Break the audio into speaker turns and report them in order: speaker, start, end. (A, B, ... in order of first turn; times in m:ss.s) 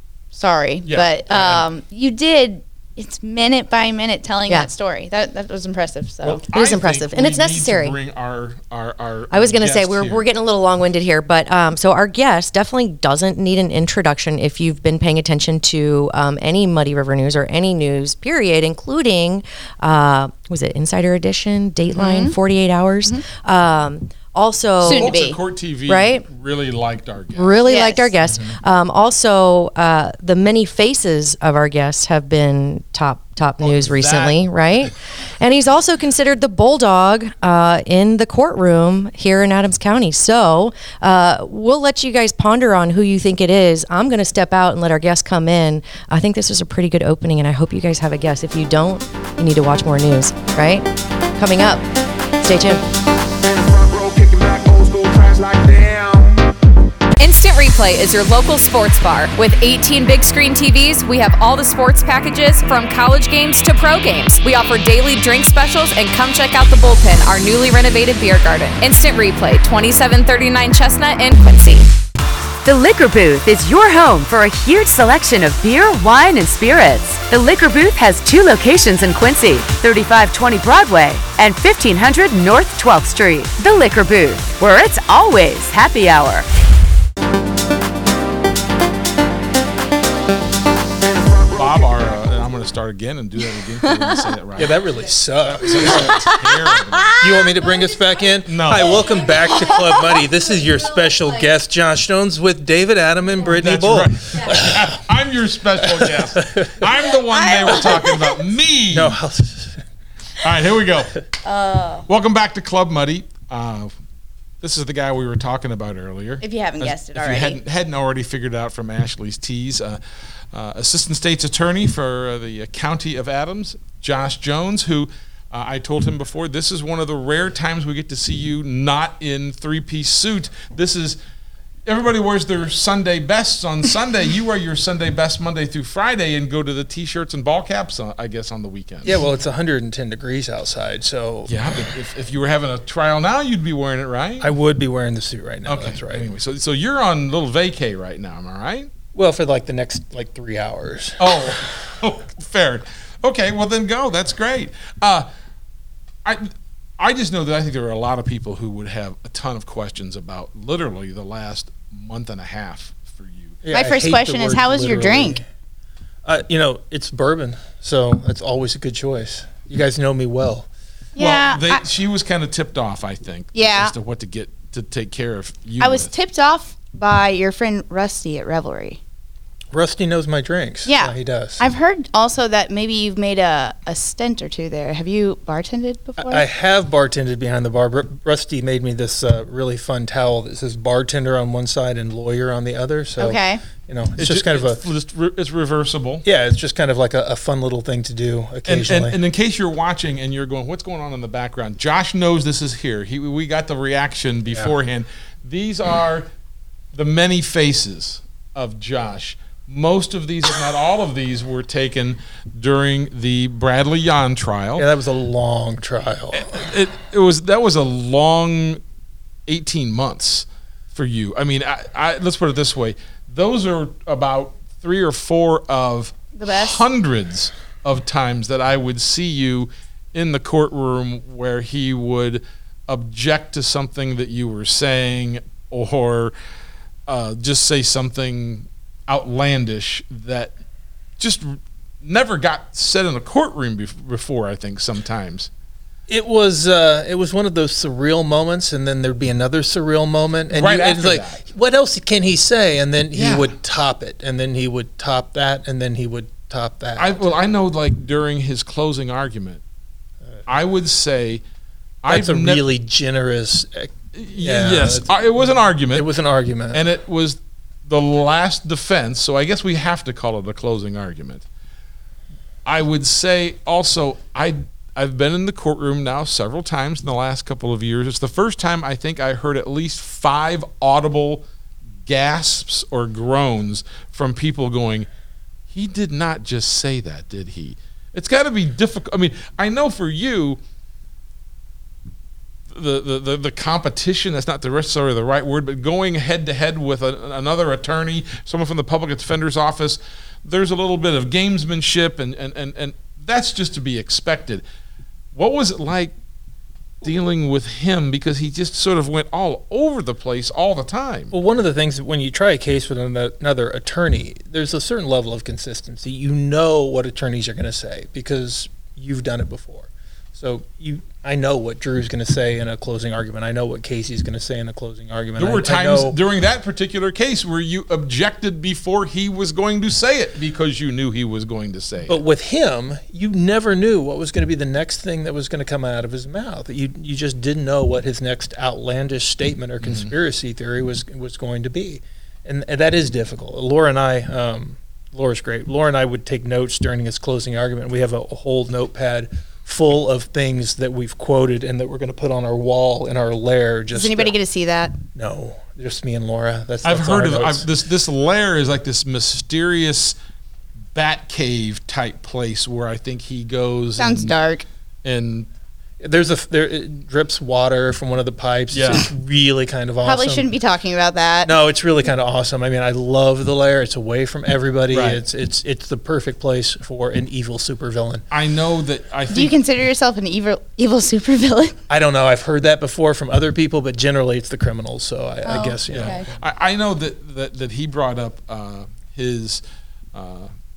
0:00.3-0:06.4 A
0:00.8-0:01.7 B
0:06.2-0:10.3 B
0:06.5-0:08.0 C
0:09.3-0:25.1 C
0:21.9-0:22.4 A
0:24.8-0:25.4 A
0:24.8-0:27.6 B
0:25.9-0:26.2 C
0:27.4-0:51.9 C
0:27.6-0:28.1 A
0:28.3-0:28.6 B
0:33.6-0:34.5 B
0:52.4-0:52.8 C
0:53.4-0:56.5 D
0:57.2-1:11.9 E
1:12.6-1:26.5 F
1:31.0-1:32.4 D
1:31.6-1:34.8 B
1:34.6-1:36.3 G
1:35.6-1:37.2 B
1:35.9-1:36.4 A
1:37.2-1:45.0 G
1:38.5-1:39.1 B
1:43.5-1:49.2 B
1:45.8-1:46.8 G
1:47.3-1:48.4 A
1:48.9-1:49.8 G
1:50.4-1:51.2 B
1:51.4-1:52.1 A
1:52.1-1:53.9 B
1:54.6-2:00.0 B
1:56.4-1:57.6 A
2:00.5-2:11.2 B
2:11.9-2:19.2 B
2:19.0-2:21.8 G
2:21.5-2:24.5 B
2:24.4-2:26.3 G
2:25.7-2:28.9 B
2:29.2-2:31.6 G
2:31.2-2:35.3 B
2:36.2-2:43.6 B
2:43.6-2:45.4 G
2:43.7-2:45.4 A
2:46.2-2:50.7 G
2:51.2-2:51.8 A
2:51.2-2:56.1 B
2:53.6-2:53.9 A
2:55.8-2:59.0 A
2:59.7-3:01.6 G
3:00.9-3:06.4 A
3:06.2-3:14.8 G
3:13.2-3:13.6 A
3:14.2-3:16.2 B
3:16.2-3:19.2 G
3:18.7-3:26.3 B
3:26.9-3:34.9 B
3:34.8-3:36.6 G
3:36.3-3:38.8 B
3:39.5-3:56.3 B
3:46.4-3:46.8 A
3:57.1-4:00.5 B
4:01.2-4:05.5 B
4:06.1-4:17.3 G
4:10.5-4:11.4 B
4:13.1-4:13.5 B
4:17.0-4:19.6 B
4:20.5-4:21.4 B
4:22.0-4:22.6 B
4:22.1-4:26.8 G
4:24.1-4:26.1 B
4:26.7-4:31.4 B
4:32.6-4:41.4 B
4:42.1-4:45.1 B
4:45.7-4:50.6 B
4:52.7-5:04.6 B
5:05.3-5:06.2 B
5:07.0-5:11.3 B
5:11.3-5:26.2 G
5:25.4-5:32.2 B
5:32.1-5:54.4 G
5:39.8-5:40.1 B
5:53.9-5:55.0 A
5:55.2-5:57.7 G
5:56.8-6:00.2 B
6:01.0-6:04.3 B
6:04.0-6:04.6 A
6:05.0-6:05.5 B
6:06.0-6:10.5 G
6:08.7-6:09.1 B
6:10.0-6:11.5 A
6:11.4-6:18.2 G
6:14.9-6:15.2 B
6:18.3-6:19.6 B
6:19.3-6:21.8 A
6:21.9-6:26.2 G
6:25.4-6:26.3 A
6:25.9-6:29.6 B
6:30.1-6:30.5 B